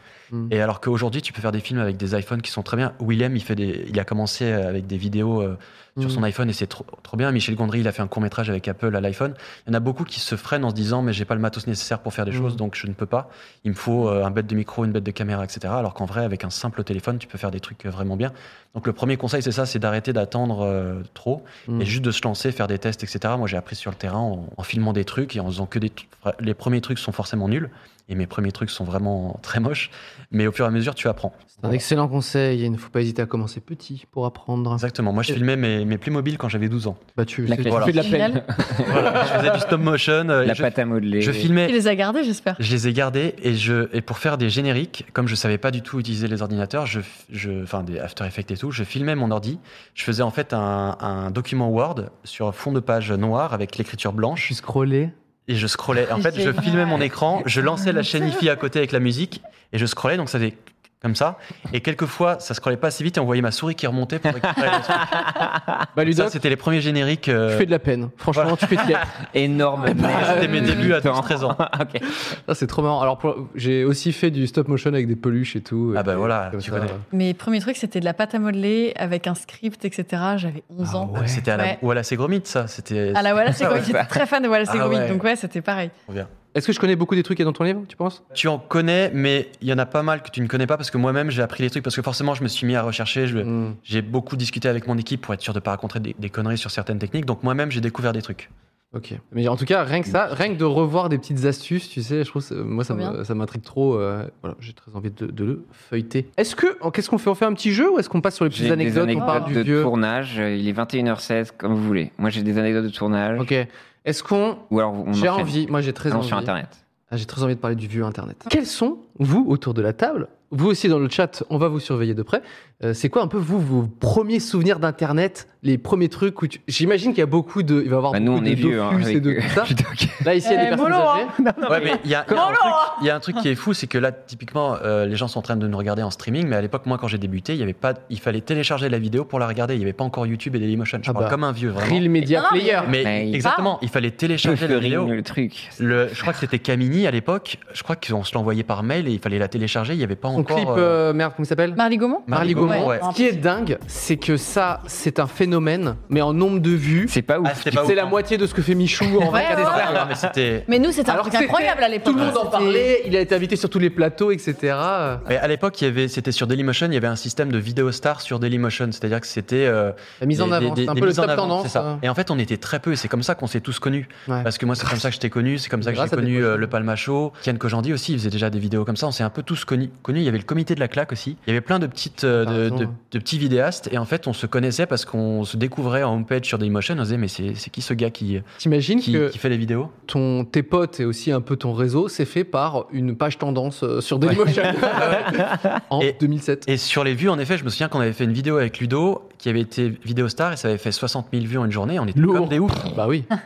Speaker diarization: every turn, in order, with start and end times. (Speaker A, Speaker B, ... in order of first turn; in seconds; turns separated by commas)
Speaker A: 0.5-31.5, Speaker B: 6.0-6.2, Speaker B: 12.3-12.6, Speaker B: 21.7-21.9, Speaker B: 31.6-35.4, Speaker A: 34.8-37.0, Speaker B: 37.2-39.7, Speaker C: 37.5-39.3, Speaker A: 37.7-38.0, Speaker D: 37.9-38.4, Speaker A: 38.9-41.8, Speaker C: 40.4-41.5, Speaker D: 41.6-42.6, Speaker A: 42.6-54.5, Speaker B: 54.4-55.1, Speaker A: 55.5-65.3, Speaker D: 56.1-57.1, Speaker C: 64.4-65.8, Speaker B: 66.0-66.4, Speaker A: 66.1-67.7, Speaker B: 67.5-69.1, Speaker A: 68.3-69.0, Speaker C: 69.3-72.1, Speaker B: 69.8-70.9, Speaker A: 70.1-71.6, Speaker B: 72.3-77.0, Speaker A: 75.9-77.0, Speaker D: 77.1-81.8, Speaker B: 80.8-81.5, Speaker A: 81.1-84.0, Speaker D: 83.1-85.9, Speaker C: 83.6-84.2, Speaker A: 84.7-85.2, Speaker B: 86.5-88.2, Speaker A: 88.3-98.5, Speaker B: 93.4-93.8, Speaker B: 98.9-109.9, Speaker D: 102.9-103.2, Speaker C: 108.5-113.5, Speaker D: 109.2-109.5, Speaker B: 113.4-116.5, Speaker C: 114.7-116.8, Speaker B: 117.1-131.3, Speaker C: 128.1-133.0, Speaker D: 130.4-131.3, Speaker A: 131.7-142.1, Speaker D: 132.3-132.9, Speaker B: 141.1-142.9, Speaker D: 142.3-143.7, Speaker A: 142.9-145.2, Speaker C: 143.0-143.5, Speaker C: 144.4-146.3, Speaker A: 145.8-151.0, Speaker B: 150.3-157.2, Speaker D: 151.8-153.4, Speaker A: 152.3-153.1, Speaker C: 157.1-158.0, Speaker A: 157.4-158.2, Speaker B: 157.8-160.1, Speaker C: 159.1-160.3, Speaker D: 159.3-160.0, Speaker A: 159.4-160.7, Speaker D: 160.7-162.9, Speaker B: 161.1-165.2, Speaker A: 165.3-188.4, Speaker B: 170.2-172.0, Speaker B: 175.8-176.7, Speaker B: 182.3-182.9, Speaker B: 188.6-189.4, Speaker A: 189.0-189.9, Speaker B: 190.1-196.7, Speaker A: 194.9-195.4, Speaker A: 196.0-203.0, Speaker B: 202.2-203.3